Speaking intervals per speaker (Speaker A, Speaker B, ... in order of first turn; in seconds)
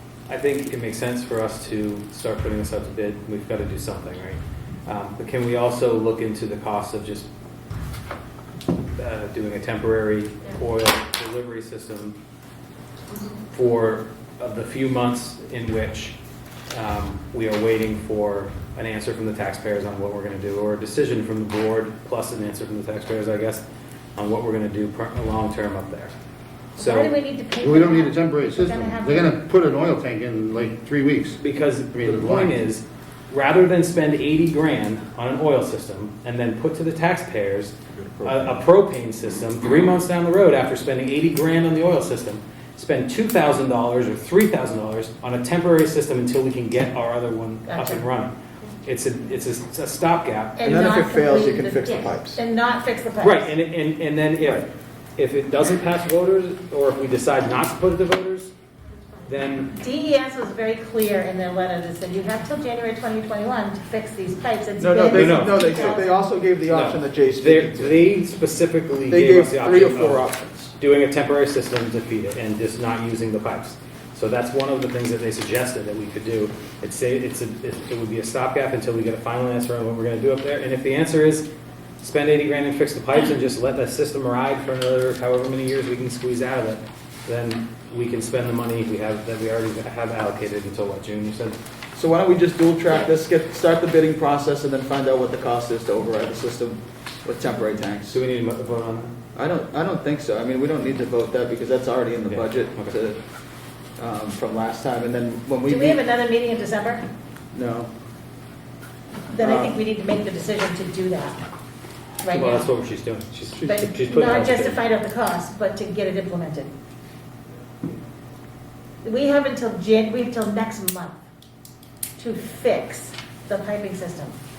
Speaker A: 0.3-7.3, 9.0-12.2, 13.5-16.2, 16.7-23.6, 24.2-26.1, 26.8-27.2, 31.4-50.7, 53.2-54.7, 55.2-58.5, 59.3-59.7, 65.1-66.0, 66.6-70.3, 70.8-81.5, 82.0-91.6, 98.1-99.2, 102.3-103.0, 112.3-114.8
Speaker B: 26.8-29.4, 47.7-48.0, 50.6-53.5, 59.8-66.2, 105.7-107.1, 109.3-111.4, 112.2-112.7, 113.7-116.7, 119.0-121.2, 122.2-124.4
Speaker C: 27.6-31.4, 31.9-32.5
Speaker D: 38.2-38.5, 50.6-52.4, 64.8-68.1, 69.1-70.7, 92.0-98.2, 99.4-103.2, 104.0-106.0, 107.5-107.9, 109.4-109.8